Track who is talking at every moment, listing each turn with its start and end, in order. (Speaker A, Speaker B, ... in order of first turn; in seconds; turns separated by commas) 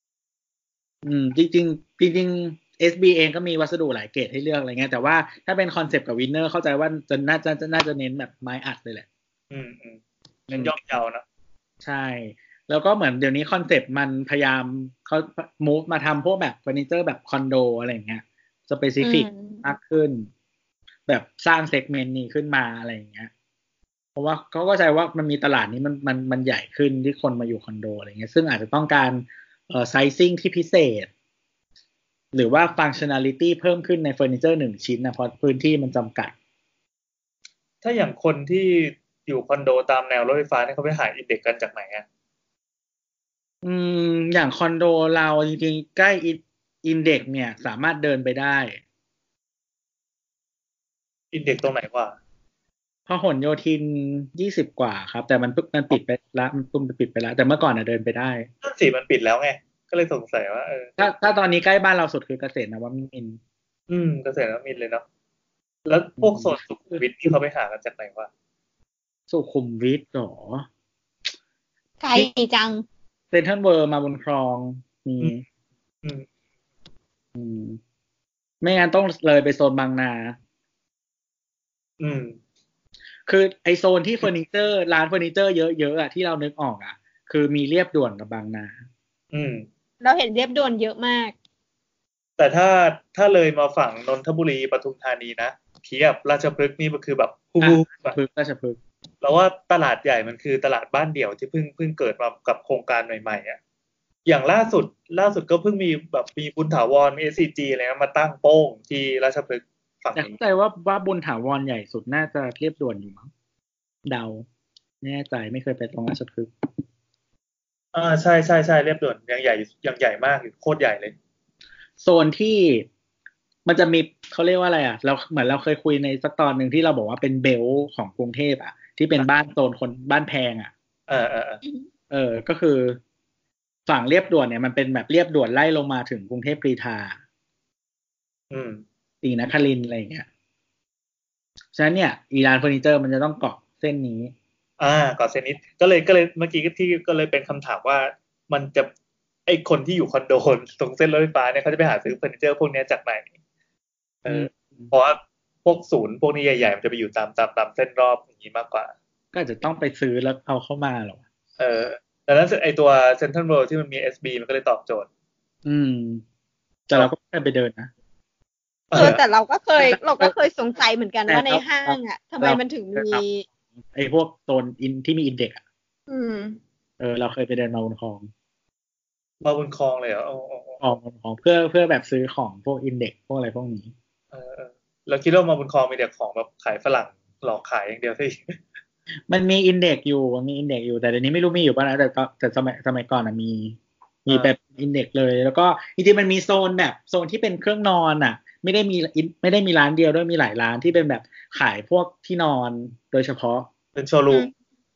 Speaker A: 1.0-9.1, Speaker B: 9.5-10.0, Speaker A: 10.5-10.7, Speaker B: 10.5-11.2, Speaker A: 11.8-20.3, Speaker C: 19.0-19.6, Speaker A: 21.1-23.3, Speaker A: 24.2-31.1, Speaker A: 32.3-36.3, Speaker B: 37.8-42.0, Speaker A: 43.6-48.8, Speaker B: 51.3-52.2, Speaker A: 53.1-58.5, Speaker B: 58.6-61.0, Speaker A: 61.0-63.4, Speaker B: 63.9-65.0, Speaker B: 65.9-68.3, Speaker A: 66.2-67.0, Speaker A: 69.3-70.7, Speaker C: 72.0-72.8, Speaker A: 73.3-75.4, Speaker A: 77.3-77.8, Speaker A: 78.6-80.4, Speaker B: 82.0-82.4, Speaker A: 83.3-88.8, Speaker B: 89.3-89.7, Speaker C: 90.0-91.3, Speaker B: 92.4-98.2, Speaker A: 97.6-98.8, Speaker B: 99.2-103.6, Speaker B: 104.3-110.4, Speaker A: 110.2-113.3, Speaker A: 114.1-114.5, Speaker A: 115.0-116.5, Speaker B: 117.9-121.1, Speaker A: 122.0-122.9, Speaker A: 123.7-130.7, Speaker B: 131.1-131.6, Speaker A: 132.1-133.0, Speaker A: 133.9-137.2, Speaker B: 138.5-138.8, Speaker A: 139.2-140.3, Speaker A: 141.7-144.3, Speaker B: 144.8-148.9, Speaker B: 149.5-153.3, Speaker B: 154.2-158.9, Speaker A: 154.3-154.9, Speaker A: 159.3-161.2, Speaker B: 161.6-165.1, Speaker A: 165.7-166.2, Speaker A: 166.9-167.9, Speaker B: 168.9-169.2, Speaker C: 168.9-173.4, Speaker A: 169.8-170.3, Speaker A: 171.3-173.2, Speaker A: 173.9-175.6, Speaker C: 176.1-176.6, Speaker A: 177.0-178.3, Speaker B: 179.4-180.8, Speaker A: 180.8-183.9, Speaker B: 184.3-188.6, Speaker A: 189.3-203.7, Speaker B: 194.3-194.5, Speaker B: 204.0-204.5